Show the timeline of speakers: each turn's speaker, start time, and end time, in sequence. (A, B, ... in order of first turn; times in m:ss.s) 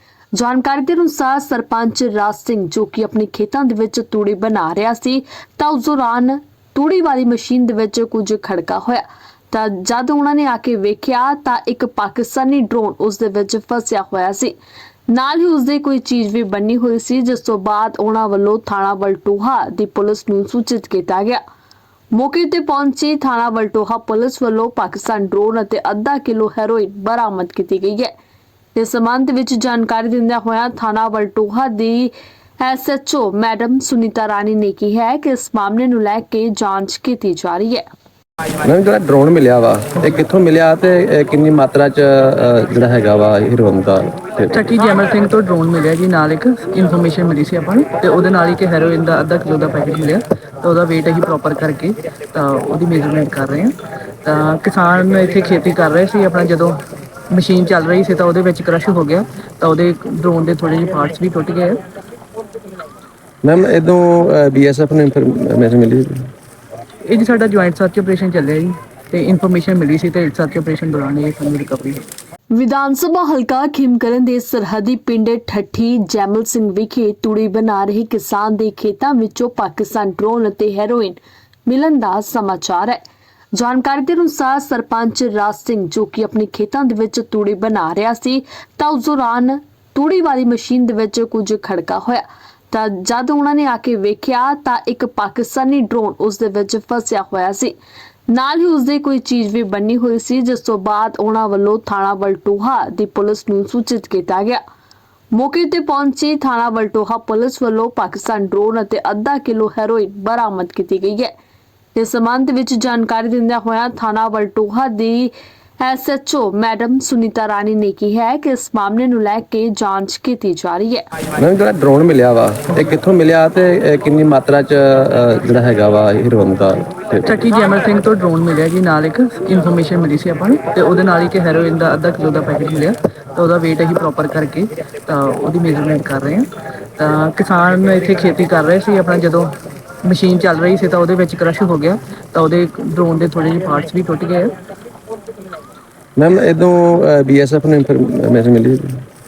0:00.3-0:14.6 A
0:15.1-0:21.4 A
0:22.1-0:28.1 A
0:28.8-0:37.8 A
0:38.6-0:44.6 B
0:44.5-0:56.8 C
0:57.3-1:01.8 C
1:03.4-1:06.3 B
1:07.0-1:12.1 C
1:12.5-1:23.0 A
1:23.5-1:37.8 A
1:38.3-1:44.6 A
1:45.3-1:51.3 A
1:52.0-2:01.0 A
2:01.4-2:07.3 B
2:07.3-2:19.5 C
2:20.0-2:24.5 C
2:26.2-2:29.1 B